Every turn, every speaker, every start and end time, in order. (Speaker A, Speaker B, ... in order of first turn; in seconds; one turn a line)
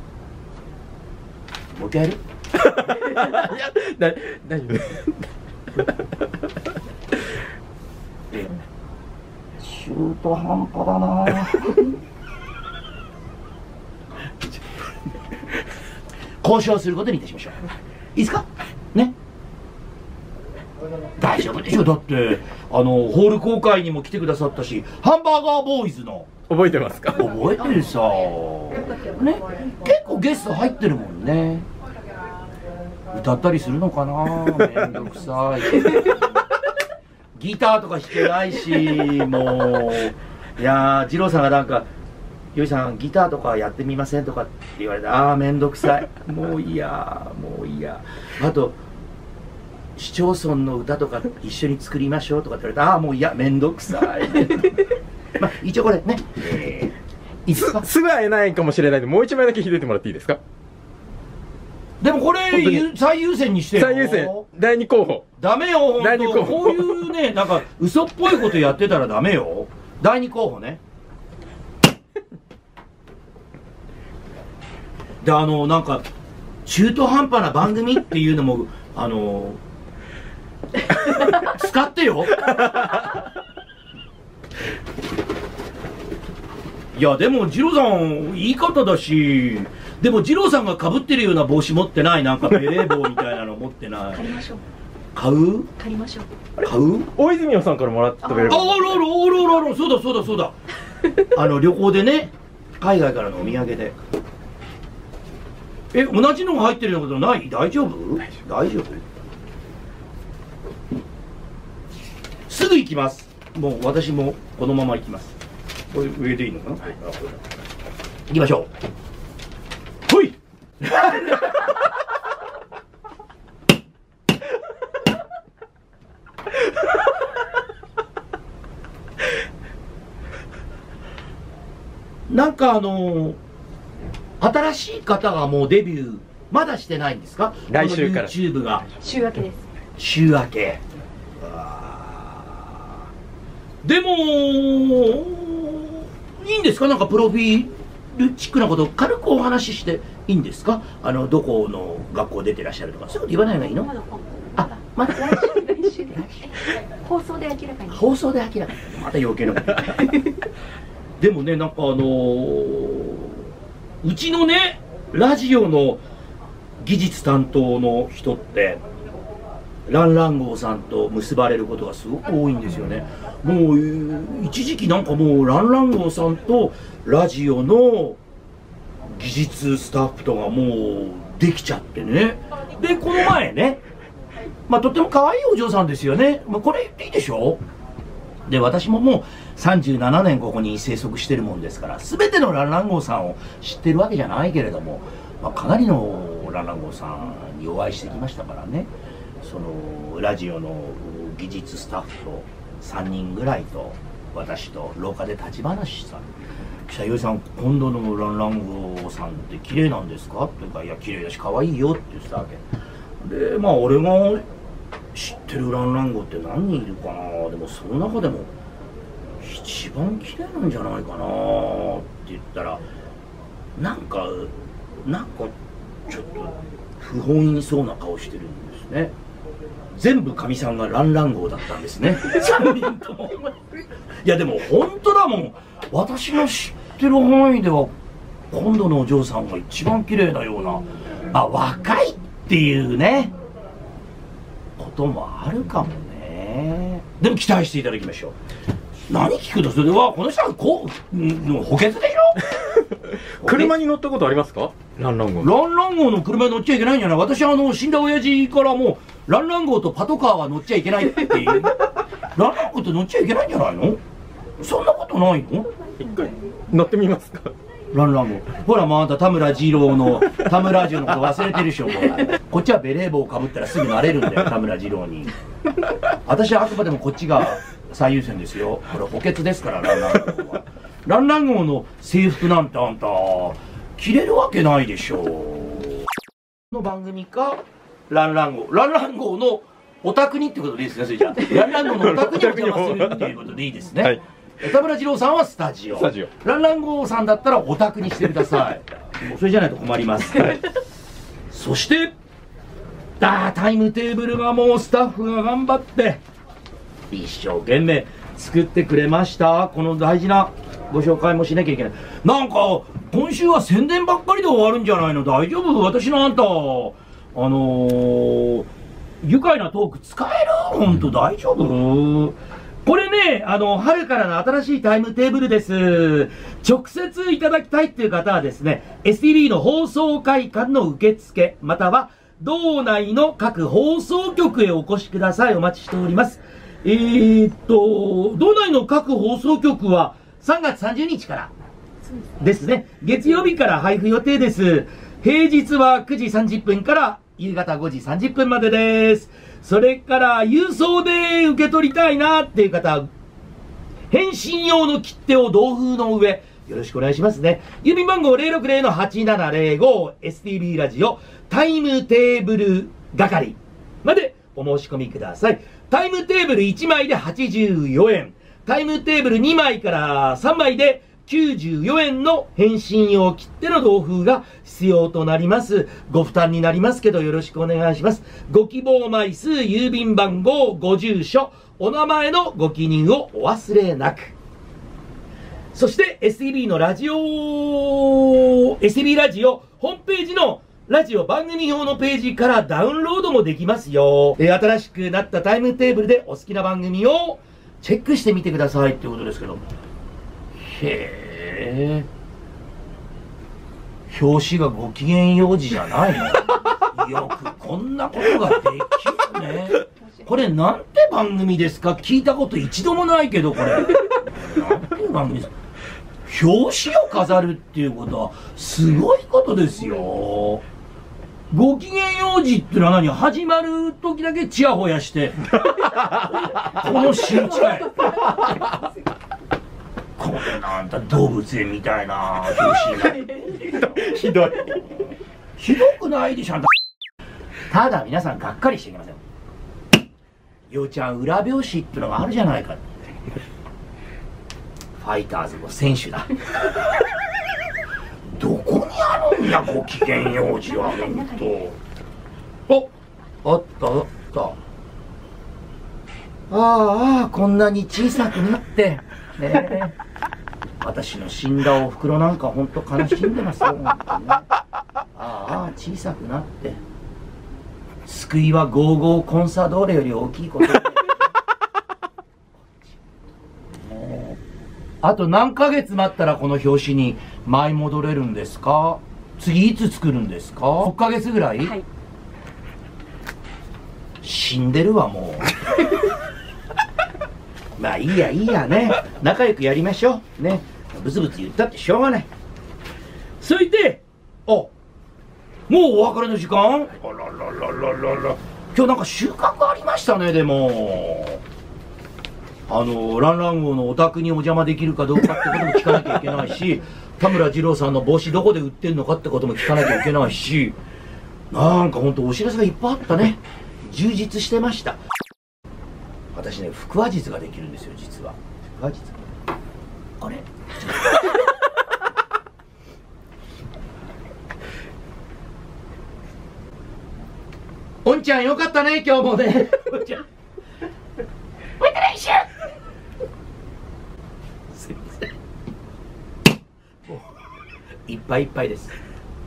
Speaker A: 1.7-2.2
Speaker B: 2.6-5.2
Speaker A: 9.6-11.9
Speaker A: 16.4-17.6
Speaker A: 18.1-19.1
Speaker A: 21.2-26.3
Speaker B: 26.5-27.3
Speaker A: 27.1-31.7
Speaker A: 33.1-36.3
Speaker C: 35.8-36.1
Speaker A: 37.4-41.9
Speaker A: 42.5-48.8
Speaker A: 50.0-54.8
Speaker A: 55.4-57.9
Speaker B: 57.5-60.4
Speaker A: 62.0-64.5
Speaker B: 62.5-62.9
Speaker B: 63.8-65.2
Speaker A: 65.4-70.8
Speaker B: 66.0-67.0
Speaker A: 75.2-76.0
Speaker A: 76.6-79.6
Speaker A: 81.2-82.7
Speaker A: 86.9-94.3
Speaker C: 94.1-94.6
Speaker A: 95.1-95.7
Speaker C: 95.8-96.3
Speaker A: 96.6-97.1
Speaker B: 97.1-98.8
Speaker C: 98.2-99.0
Speaker A: 98.5-100.5
Speaker A: 101.2-103.9
Speaker A: 105.9-109.0
Speaker A: 112.5-115.3
Speaker A: 115.9-117.4
Speaker A: 118.3-118.7
Speaker A: 120.8-121.3
Speaker A: 132.3-133.4
Speaker A: 134.4-138.8
Speaker B: 137.7-138.3
Speaker C: 139.0-139.7
Speaker A: 140.0-140.8
Speaker A: 141.4-142.6
Speaker A: 143.8-153.9
Speaker C: 153.6-158.1
Speaker A: 154.6-155.5
Speaker A: 156.1-156.4
Speaker A: 157.9-160.0
Speaker A: 161.2-163.4
Speaker A: 164.0-166.0
Speaker A: 166.8-168.8
Speaker A: 169.9-178.2
Speaker A: 179.1-183.8
Speaker A: 184.7-187.6
Speaker A: 188.5-198.9
Speaker A: 199.4-206.3
Speaker A: 206.9-212.6
Speaker A: 213.2-214.4
Speaker A: 215.1-218.5
Speaker A: 219.4-222.8
Speaker A: 223.8-225.5
Speaker A: 226.1-229.1
Speaker A: 229.9-233.5
Speaker A: 234.2-237.9
Speaker A: 238.5-243.3
Speaker A: 244.8-248.3
Speaker A: 249.1-252.6
Speaker B: 252.9-255.5
Speaker A: 253.4-253.7
Speaker A: 255.4-264.0
Speaker A: 264.6-265.7
Speaker B: 266.0-267.5
Speaker A: 267.9-275.3
Speaker A: 276.2-286.0
Speaker A: 286.7-300.6
Speaker B: 291.9-293.3
Speaker B: 296.0-296.3
Speaker A: 301.5-302.1
Speaker A: 303.2-306.2
Speaker A: 307.1-318.7
Speaker A: 319.2-341.5
Speaker A: 342.4-353.1
Speaker A: 354.1-384.3
Speaker A: 385.7-399.6
Speaker A: 400.6-402.1
Speaker A: 404.1-415.5
Speaker A: 416.2-420.6
Speaker A: 421.5-428.3
Speaker C: 428.0-428.8
Speaker A: 430.2-436.7
Speaker B: 433.7-434.8
Speaker A: 437.7-439.2
Speaker A: 440.7-443.1
Speaker A: 445.0-446.4
Speaker A: 448.4-451.8
Speaker C: 450.7-451.6
Speaker A: 453.4-454.6
Speaker A: 456.5-459.9
Speaker A: 460.8-464.5
Speaker A: 465.1-466.8
Speaker A: 468.1-471.0
Speaker A: 473.8-474.4
Speaker A: 475.0-481.7
Speaker A: 484.2-485.6
Speaker A: 487.8-492.3
Speaker A: 493.4-494.7
Speaker A: 495.7-501.4
Speaker A: 502.7-510.8
Speaker A: 511.5-515.0
Speaker A: 516.3-519.2
Speaker A: 520.2-521.1
Speaker A: 528.0-530.2
Speaker A: 531.8-532.5
Speaker A: 534.7-535.2
Speaker A: 538.1-538.9